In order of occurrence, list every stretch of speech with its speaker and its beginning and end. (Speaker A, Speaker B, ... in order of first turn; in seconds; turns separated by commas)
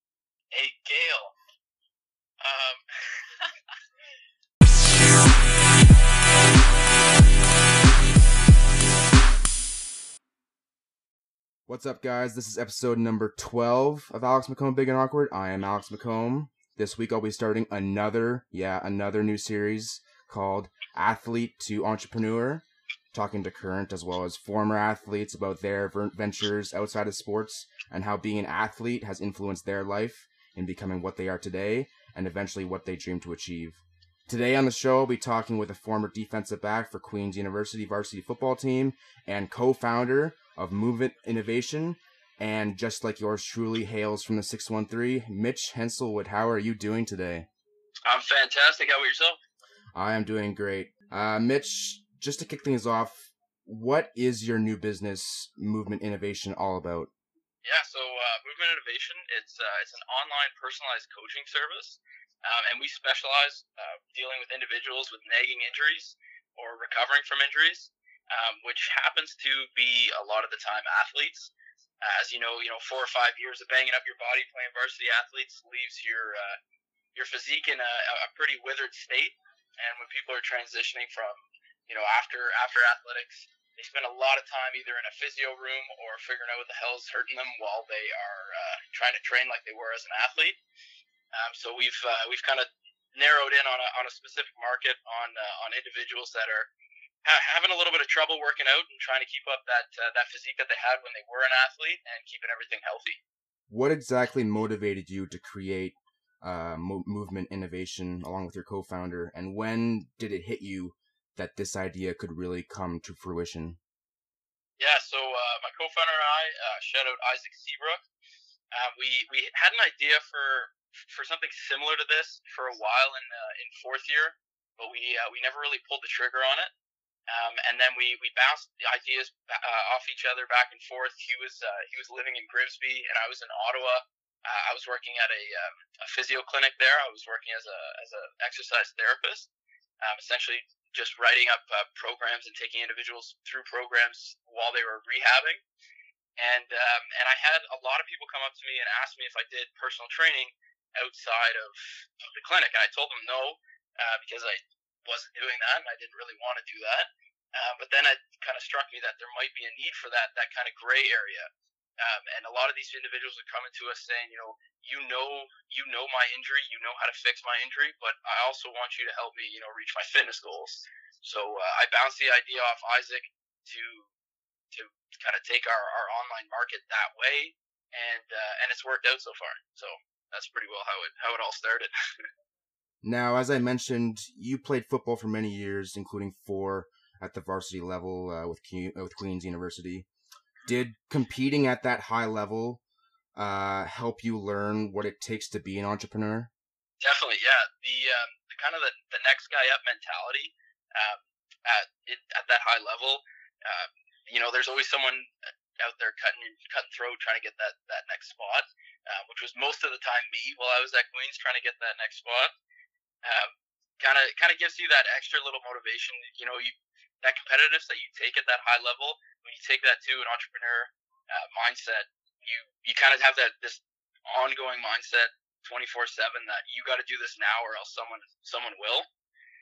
Speaker A: 0.5-1.4, Speaker A: 2.4-3.6, Speaker B: 11.7-47.5, Speaker A: 48.1-49.4, Speaker B: 50.0-57.1, Speaker A: 57.6-76.6, Speaker A: 77.2-90.6, Speaker A: 91.3-96.7, Speaker A: 97.2-103.2, Speaker B: 103.7-113.8, Speaker A: 114.8-118.0, Speaker A: 118.7-126.7, Speaker A: 127.3-139.5, Speaker A: 140.0-145.6, Speaker A: 146.4-161.5, Speaker A: 162.0-174.1, Speaker A: 174.7-181.9, Speaker B: 183.0-190.1, Speaker B: 190.7-192.8, Speaker B: 193.4-196.5, Speaker A: 197.0-212.5, Speaker A: 213.2-229.1